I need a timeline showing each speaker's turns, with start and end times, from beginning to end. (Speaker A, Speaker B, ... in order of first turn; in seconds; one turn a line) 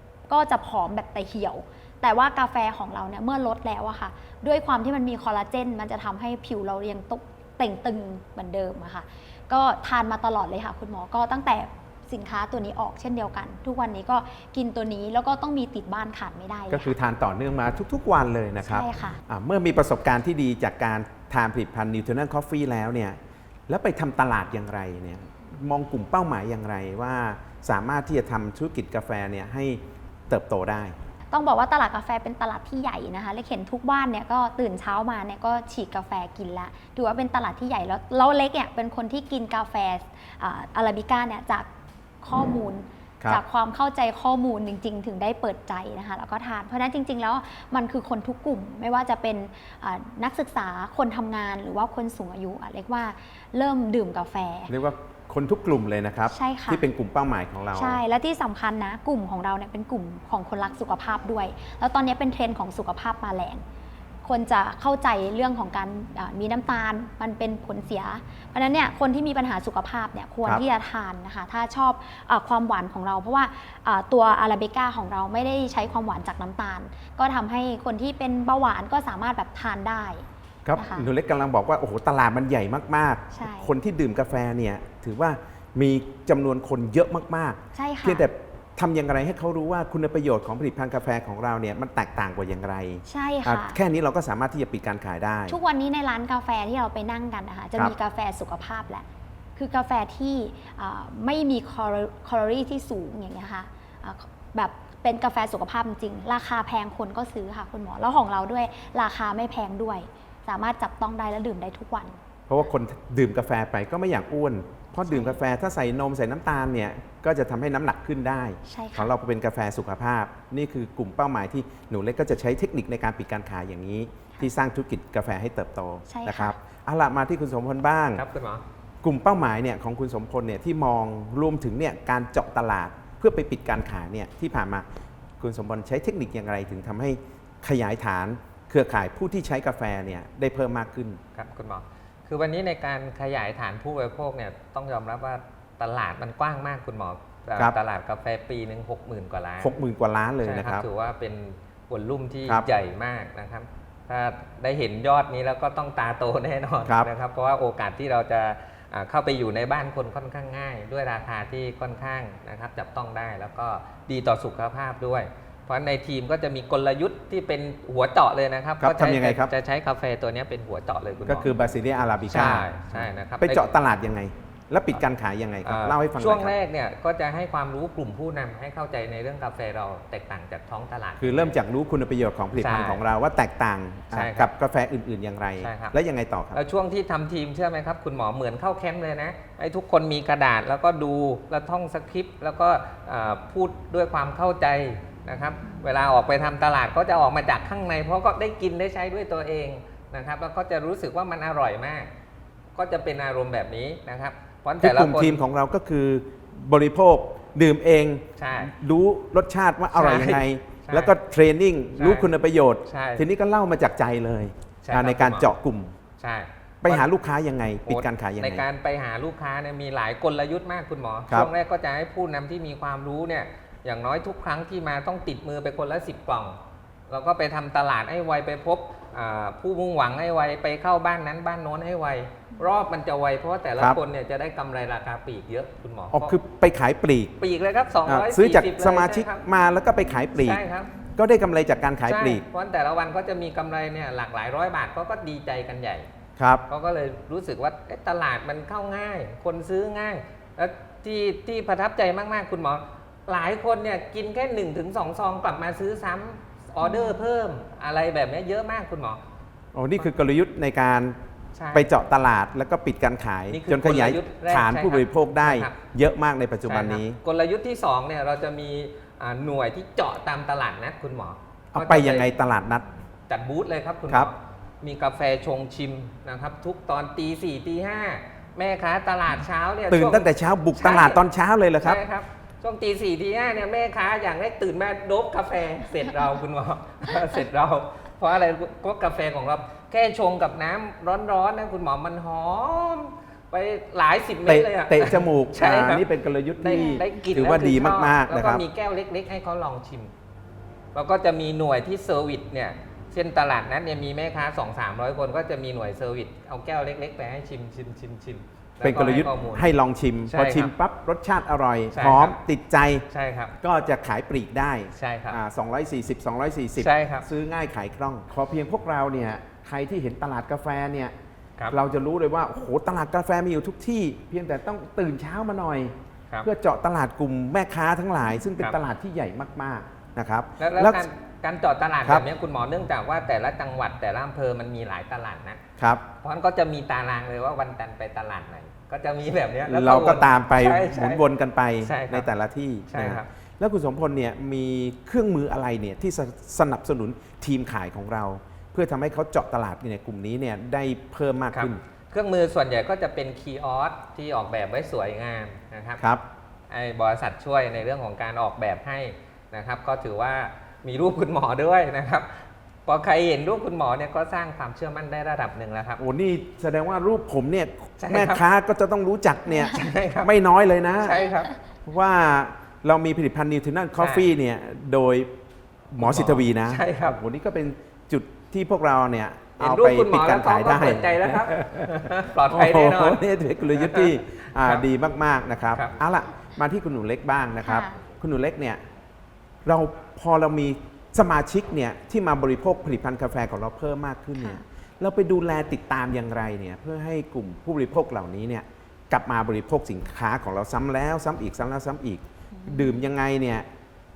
Speaker A: 0.3-16.9
Speaker B: 16.7-31.0
Speaker A: 18.6-19.2
Speaker A: 31.3-41.7
Speaker A: 42.2-54.7
Speaker B: 54.7-58.0
Speaker A: 56.3-56.9
Speaker A: 57.7-63.6
Speaker A: 64.2-80.2
Speaker B: 80.7-95.6
Speaker A: 80.8-81.1
Speaker A: 83.3-83.7
Speaker A: 87.7-88.3
Speaker A: 93.1-93.8
Speaker A: 95.5-112.2
Speaker B: 112.5-128.2
Speaker A: 115.1-115.4
Speaker A: 118.7-119.1
Speaker A: 126.1-126.5
Speaker C: 128.2-128.6
Speaker B: 129.0-134.9
Speaker B: 135.4-141.2
Speaker C: 141.3-149.8
Speaker B: 149.6-150.9
Speaker C: 150.4-171.6
Speaker B: 156.8-157.1
Speaker B: 168.8-169.5
Speaker B: 171.3-176.6
Speaker C: 172.3-173.7
Speaker C: 175.6-181.6
Speaker B: 181.2-186.6
Speaker C: 182.6-183.0
Speaker C: 184.1-184.5
Speaker C: 185.6-186.0
Speaker C: 186.5-202.1
Speaker C: 202.8-205.4
Speaker B: 204.8-215.9
Speaker C: 208.4-208.7
Speaker C: 209.9-211.1
Speaker C: 212.0-212.3
Speaker C: 212.9-213.3
Speaker C: 214.8-215.6
Speaker C: 216.2-217.1
Speaker B: 216.8-218.7
Speaker C: 217.8-226.6
Speaker C: 227.1-236.4
Speaker B: 236.1-237.3
Speaker C: 237.4-239.4
Speaker B: 238.1-240.6
Speaker C: 240.3-240.9
Speaker B: 241.2-242.4
Speaker C: 242.0-246.1
Speaker B: 246.4-246.7
Speaker C: 246.7-259.2
Speaker A: 256.8-257.2
Speaker B: 259.8-261.2
Speaker C: 261.6-261.9
Speaker B: 261.7-267.2
Speaker C: 263.5-265.8
Speaker C: 266.7-272.3
Speaker B: 271.7-272.9
Speaker C: 273.3-281.2
Speaker B: 279.9-282.0
Speaker C: 281.8-296.1
Speaker B: 294.5-298.6
Speaker C: 296.6-300.1
Speaker A: 296.7-297.0
Speaker C: 300.9-309.7
Speaker B: 308.8-313.1
Speaker C: 310.3-310.7
Speaker C: 311.9-312.4
Speaker C: 313.1-313.6
Speaker B: 313.6-321.1
Speaker C: 315.0-315.4
Speaker C: 316.8-317.3
Speaker B: 321.7-331.1
Speaker C: 330.6-335.6
Speaker B: 335.8-336.1
Speaker C: 336.2-341.2
Speaker B: 339.7-351.8
Speaker C: 341.8-342.3
Speaker C: 342.9-343.3
Speaker C: 351.5-356.0
Speaker C: 356.7-362.3
Speaker C: 362.9-366.0
Speaker B: 366.0-371.3
Speaker C: 368.0-368.4
Speaker C: 369.6-370.3
Speaker C: 371.0-371.5
Speaker B: 371.8-375.3
Speaker C: 374.0-374.3
Speaker B: 375.9-381.9
Speaker C: 376.0-377.2
Speaker C: 379.6-383.2
Speaker B: 382.5-388.8
Speaker C: 383.8-384.8
Speaker A: 387.6-388.0
Speaker B: 389.7-403.7
Speaker A: 394.4-394.6
Speaker A: 402.5-403.0